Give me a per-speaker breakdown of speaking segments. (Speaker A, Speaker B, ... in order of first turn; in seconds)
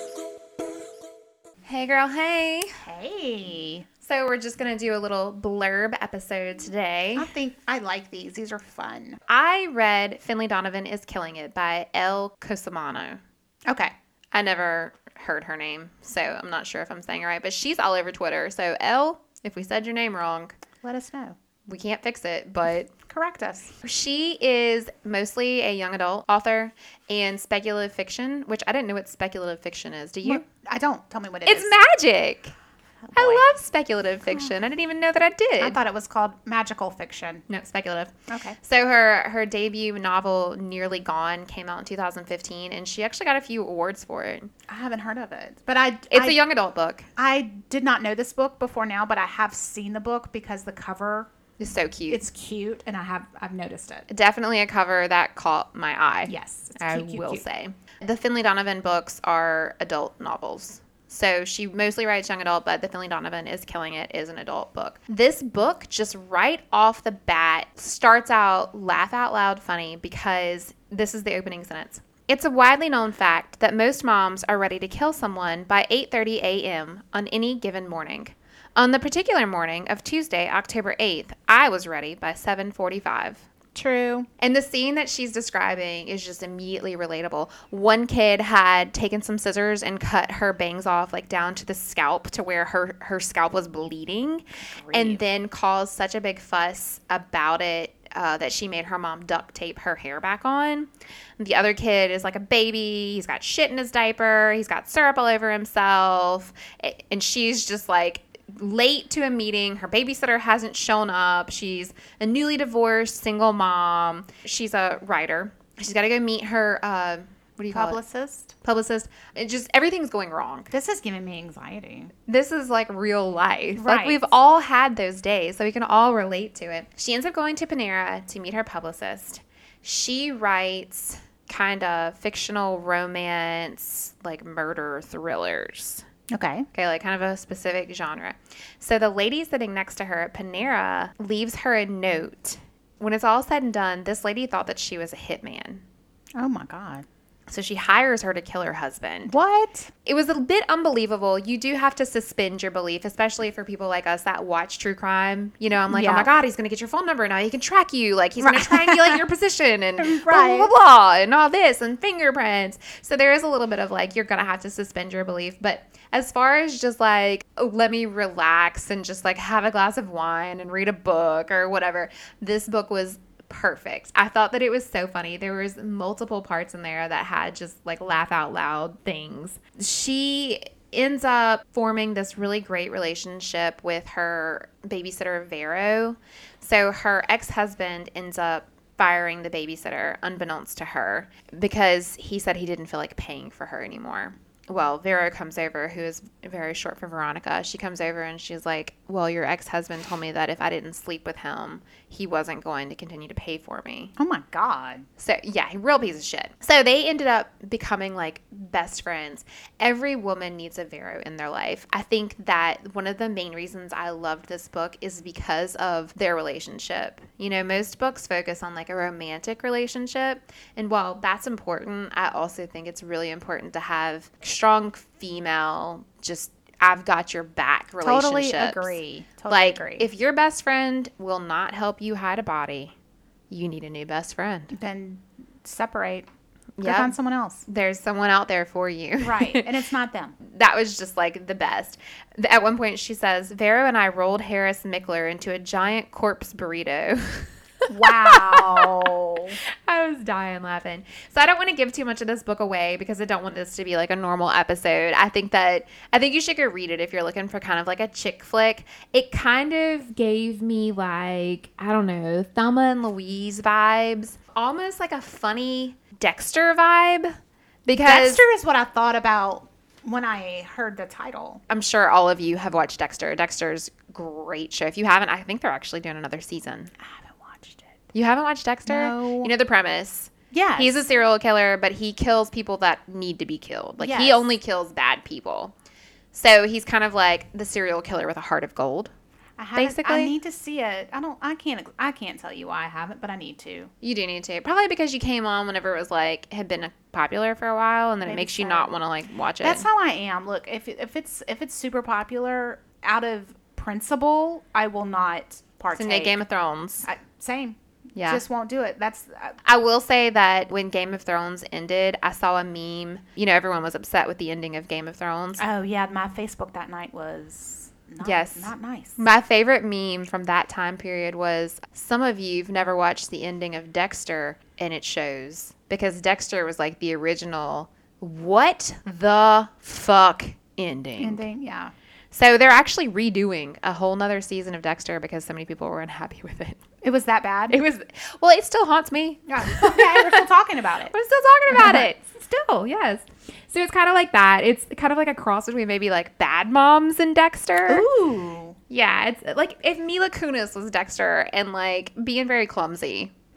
Speaker A: 1.6-2.7, 4.0-7.3, 9.3-13.2, 14.3-20.6, 21.7-22.9, 23.8-30.4, 31.5-32.5, 33.1-35.8, 37.5-44.5, 46.1-47.1, 51.6-52.2, 54.1-83.5, 84.4-118.0, 118.6-120.7, 122.3-136.0, 136.7-145.8, 147.5-149.3, 150.0-204.1, 205.2-232.9, 233.5-234.7, 236.8-237.1, 237.7-239.7, 240.4-247.5, 248.1-249.2, 249.8-267.3, 267.9-268.4, 271.7-276.9, 278.1-285.7, 286.3-289.1, 289.8-290.3, 294.0-299.9, 305.9-307.1, 308.1-308.4, 309.6-315.6, 318.2-331.5, 332.3-336.8, 337.7-340.5, 341.1-348.1, 348.9-353.3
Speaker B: 2.9-3.9, 7.2-9.2, 13.7-13.9, 20.8-21.4, 23.1-23.7, 30.2-31.8, 33.0-33.4, 35.6-37.4, 38.3-38.6, 44.7-46.4, 47.2-51.3, 52.1-54.1, 56.3-57.4, 83.8-84.3, 94.8-95.2, 117.7-118.5, 120.7-122.1, 123.8-124.3, 136.3-136.7, 146.3-147.0, 149.3-149.9, 155.9-156.3, 158.4-159.2, 160.0-160.7, 204.2-205.1, 228.0-230.1, 234.7-236.3, 236.8-237.6, 239.2-240.4, 247.9-249.6, 268.0-271.6, 277.0-278.0, 278.9-279.5, 280.5-281.0, 284.0-284.5, 289.6-293.9, 298.2-298.9, 299.6-306.4, 307.1-309.6, 315.6-319.2, 331.2-331.9, 337.0-337.8, 339.5-341.1, 341.7-342.1, 347.9-348.8